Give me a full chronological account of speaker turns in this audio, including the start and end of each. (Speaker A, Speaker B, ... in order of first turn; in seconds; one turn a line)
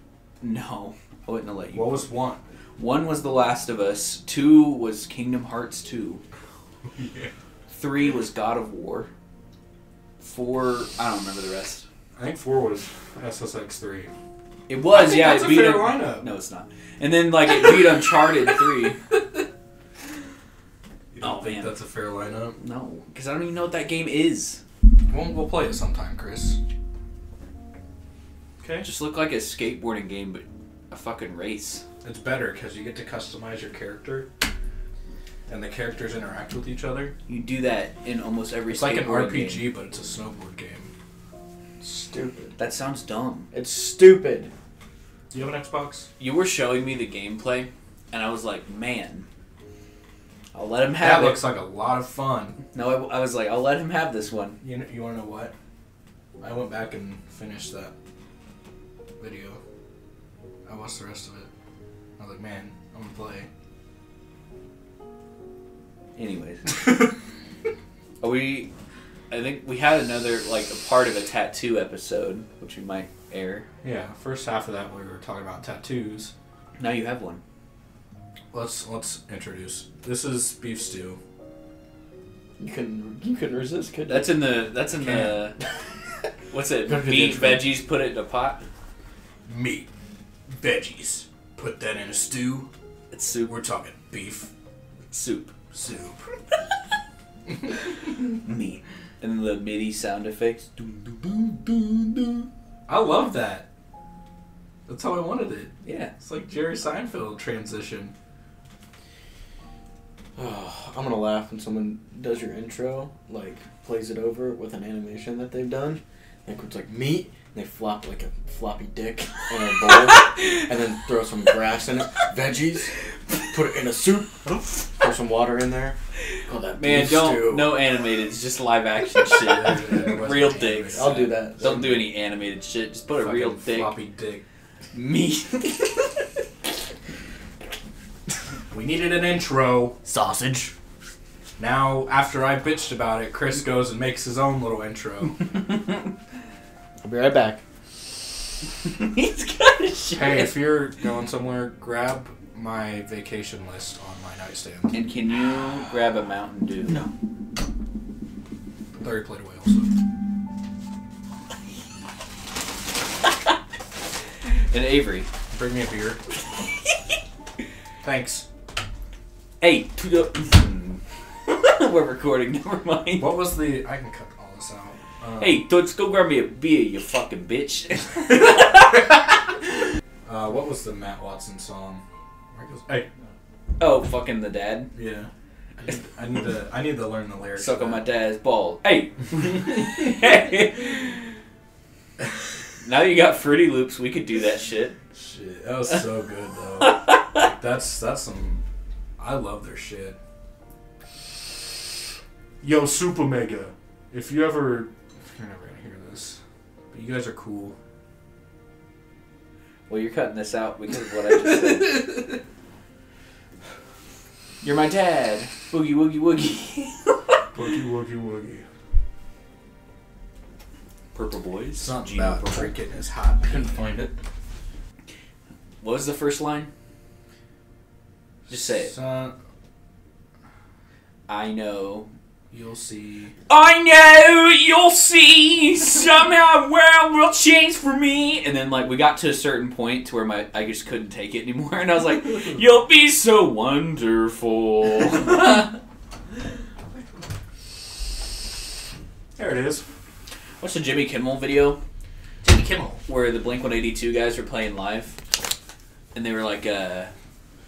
Speaker A: 0.4-2.0
Speaker B: 1.7-2.4
Speaker A: 2.8-6.2
Speaker B: 6.9-7.3
Speaker A: 7.7-9.1
Speaker A: 10.2-11.8
Speaker B: 12.2-14.1
Speaker A: 14.7-19.0
Speaker B: 14.9-16.3
Speaker B: 21.1-22.6
Speaker A: 21.2-21.8
Speaker A: 22.6-24.6
Speaker B: 25.1-26.6
Speaker B: 28.6-28.9
Speaker A: 28.8-31.8
Speaker B: 32.0-34.3
Speaker B: 35.5-37.1
Speaker A: 37.3-39.7
Speaker B: 38.7-40.9
Speaker C: 41.8-42.6
Speaker A: 42.6-43.5
Speaker C: 43.5-44.5
Speaker B: 45.3-46.1
Speaker A: 46.2-49.2
Speaker A: 50.5-51.5
Speaker B: 51.0-52.6
Speaker A: 52.7-54.6
Speaker B: 54.6-55.5
Speaker B: 56.4-57.9
Speaker B: 59.2-59.6
Speaker B: 60.6-61.5
Speaker B: 62.2-63.5
Speaker A: 66.2-66.7
Speaker A: 68.2-68.7
Speaker A: 69.3-73.7
Speaker B: 73.8-76.3
Speaker A: 76.8-77.4
Speaker B: 78.5-81.2
Speaker C: 82.6-84.6
Speaker A: 84.1-85.6
Speaker A: 86.5-88.6
Speaker C: 86.8-87.7
Speaker B: 89.5-89.9
Speaker B: 90.6-92.7
Speaker A: 93.1-93.5
Speaker B: 93.5-94.5
Speaker A: 95.1-95.5
Speaker B: 95.7-96.2
Speaker A: 98.4-102.5
Speaker B: 102.9-103.7
Speaker B: 104.9-108.1
Speaker A: 105.8-106.1
Speaker C: 110.3-127.8
Speaker A: 126.7-134.0
Speaker B: 129.2-131.3
Speaker C: 130.9-132.0
Speaker B: 133.2-134.4
Speaker A: 134.9-136.2
Speaker B: 138.7-139.9
Speaker C: 140.0-140.7
Speaker B: 141.6-145.4
Speaker C: 147.0-147.6
Speaker A: 148.9-150.6
Speaker B: 150.1-154.9
Speaker A: 154.9-157.1
Speaker B: 158.9-159.9
Speaker A: 164.6-165.3
Speaker B: 165.5-166.2
Speaker B: 168.0-168.4
Speaker A: 169.6-173.3
Speaker B: 173.2-175.6
Speaker A: 175.4-179.0
Speaker B: 180.2-183.1
Speaker A: 183.8-184.9
Speaker B: 184.9-185.3
Speaker B: 185.8-188.0
Speaker A: 187.6-191.3
Speaker A: 192.8-194.9
Speaker B: 195.1-198.6
Speaker B: 199.2-200.2
Speaker B: 202.6-206.4
Speaker B: 206.9-207.8
Speaker A: 209.9-212.2
Speaker B: 211.7-212.2
Speaker A: 214.6-217.4
Speaker B: 217.5-218.7
Speaker A: 221.1-222.7
Speaker B: 221.8-224.1
Speaker C: 223.5-224.0
Speaker A: 225.8-226.7
Speaker A: 228.5-228.9
Speaker B: 228.8-229.3
Speaker A: 231.3-232.1
Speaker B: 232.5-233.3
Speaker A: 233.5-245.7
Speaker B: 249.3-249.8
Speaker A: 250.6-251.8
Speaker B: 252.4-253.0
Speaker A: 253.0-255.2
Speaker A: 256.1-257.1